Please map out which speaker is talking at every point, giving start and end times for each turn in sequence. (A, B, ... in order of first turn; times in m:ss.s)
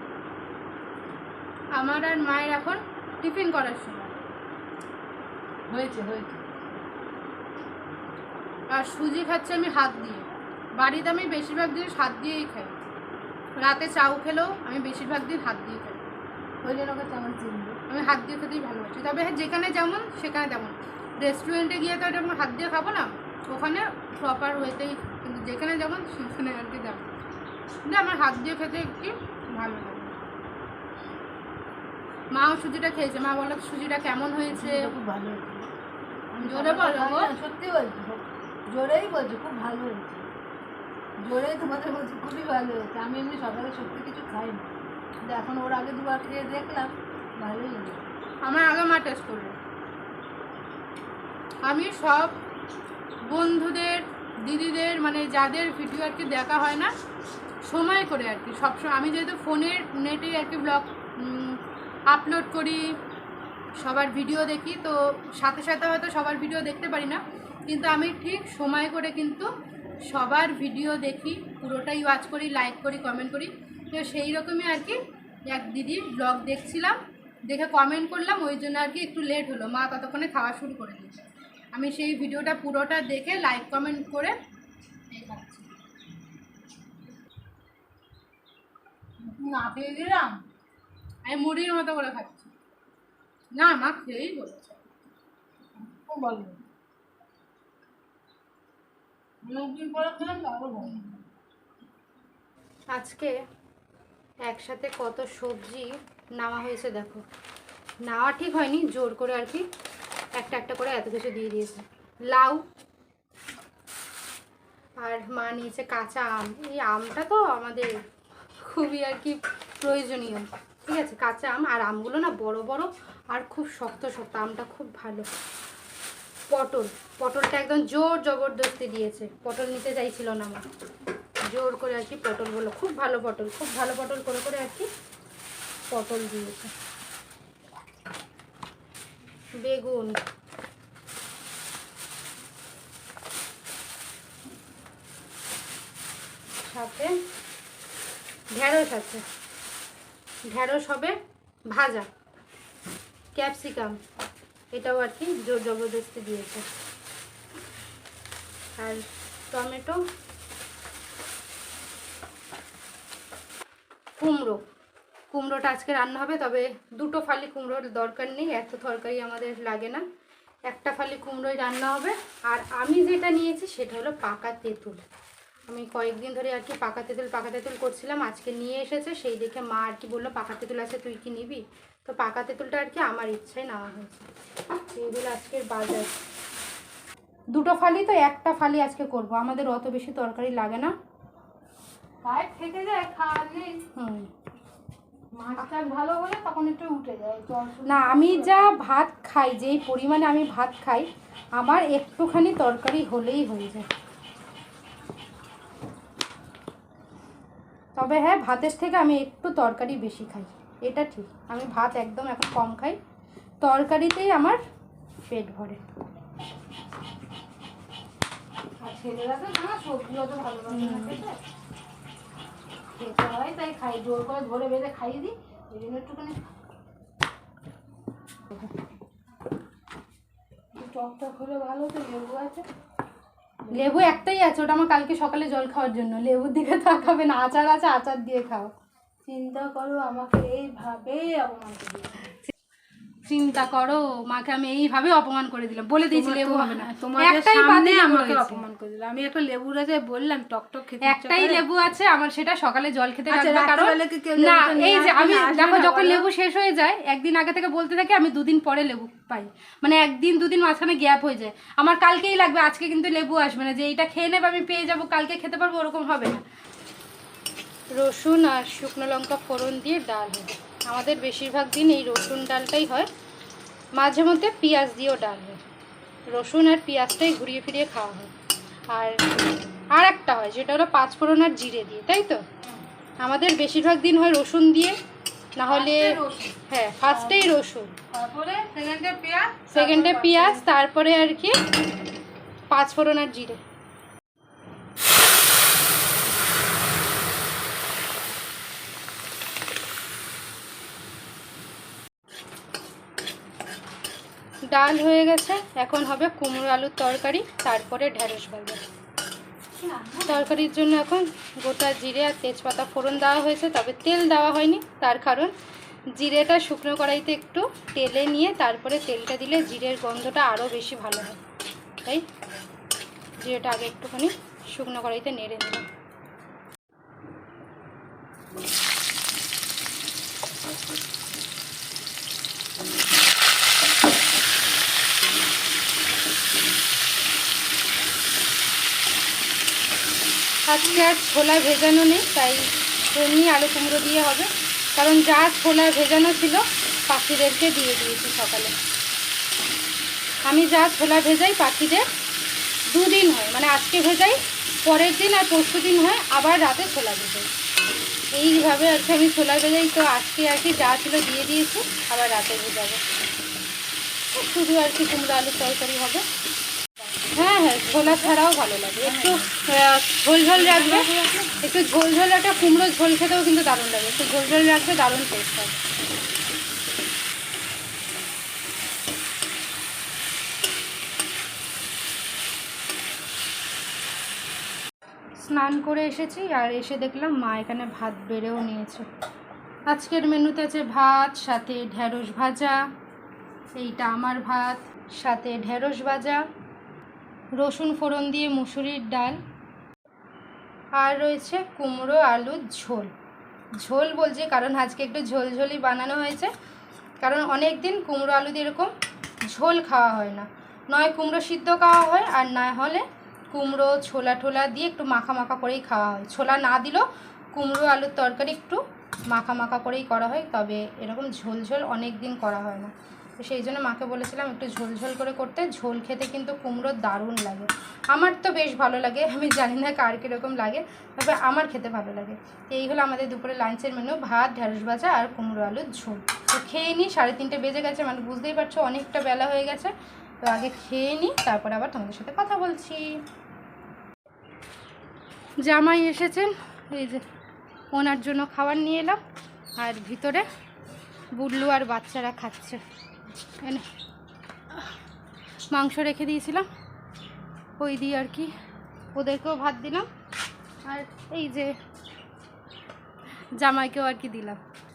0:01.7-0:04.1 A
0:05.7-0:06.4 B
0:08.7-0:10.2 A
0:10.8-0:12.7 A
0:13.6-0:16.0 A
0:16.6-0:17.8 B
0:17.9-0:27.0 A
0:27.8-0:30.1 A
0:32.3-0:34.9 A
0:34.5-0:35.7 B
0:36.3-0:40.3 B
0:36.4-0:37.3 A
0:41.2-0:44.6 B
0:45.2-0:48.0 B
0:48.4-0:49.6 A
0:51.6-0:52.4 A
0:53.2-0:56.9 A
0:57.6-1:02.8 A
1:03.8-1:09.5 A
1:10.1-1:24.3 A
1:25.1-1:25.6 A
1:29.2-1:30.4 B
1:31.2-1:32.5 A
1:33.5-1:34.7 A
1:35.9-1:36.6 B
1:39.4-1:41.2 B
1:42.9-1:43.3 A
1:44.5-1:47.2 A
1:48.0-1:49.6 A
1:50.4-1:52.6 A
1:55.0-1:57.9 A
1:58.6-2:05.3 A
2:06.5-2:10.6 A
2:11.4-2:14.9 A
2:15.9-2:16.7 A
2:19.6-2:20.2 A
2:26.6-2:27.1 A
2:28.5-2:29.2 A
2:30.5-2:31.1 A
2:31.7-2:32.1 A
2:33.3-2:34.0 A
2:34.7-2:36.6 A
2:38.8-2:40.0 A
2:44.2-2:44.6 A
2:45.3-2:50.0 A
2:50.7-2:55.0 A
2:55.7-3:04.3 A
3:04.8-3:06.1 A
3:07.5-3:10.9 A
3:12.2-3:13.8 B
3:13.9-3:14.3 A
3:15.3-3:18.7 B
3:17.8-3:23.8 A
3:27.9-3:33.0 A
3:33.6-3:34.6 A
3:35.3-3:35.8 A
3:38.8-3:41.4 B
3:40.7-3:41.2 A
3:42.9-3:46.4 B
3:50.7-3:52.7 B
3:53.7-3:54.1 B
3:53.7-3:58.7 A
3:59.2-4:02.3 B
4:03.2-4:08.6 A
4:06.1-4:11.6 B
4:11.0-4:26.4 A
4:13.3-4:16.2 B
4:28.0-4:33.1 A
4:34.0-4:35.6 A
4:36.3-4:38.3 A
4:38.9-4:39.2 A
4:39.9-4:42.4 A
4:43.2-4:45.0 A
4:45.6-4:47.9 A
4:45.7-4:46.5 B
4:47.1-4:47.5 B
4:48.1-4:50.6 B
4:49.7-4:51.6 A
4:52.7-4:53.6 A
5:04.7-5:08.8 A
5:09.8-5:10.5 B
5:10.2-5:15.5 A
5:16.2-5:21.4 A
5:23.4-5:25.9 A
5:40.6-5:48.7 A
5:50.4-5:52.0 A
5:52.9-5:57.5 A
5:58.3-6:03.0 A
6:04.3-6:06.2 A
6:07.3-6:11.1 A
6:08.0-6:08.3 B
6:09.0-6:09.5 B
6:10.5-6:11.5 B
6:11.6-6:15.8 A
6:25.4-6:29.1 A
6:29.9-6:32.8 A
6:33.8-6:36.4 A
6:37.6-6:39.4 A
6:41.0-6:43.1 A
6:43.8-6:46.5 A
6:47.2-6:48.9 A
6:49.5-7:23.2 A
7:25.6-7:27.2 A
7:27.9-7:29.2 A
7:29.8-7:30.4 A
7:31.4-7:32.8 A
7:33.6-7:33.8 A
7:35.7-7:36.7 A
7:37.8-7:38.5 A
7:39.1-7:40.1 A
7:40.8-7:41.7 A
7:43.6-7:44.6 A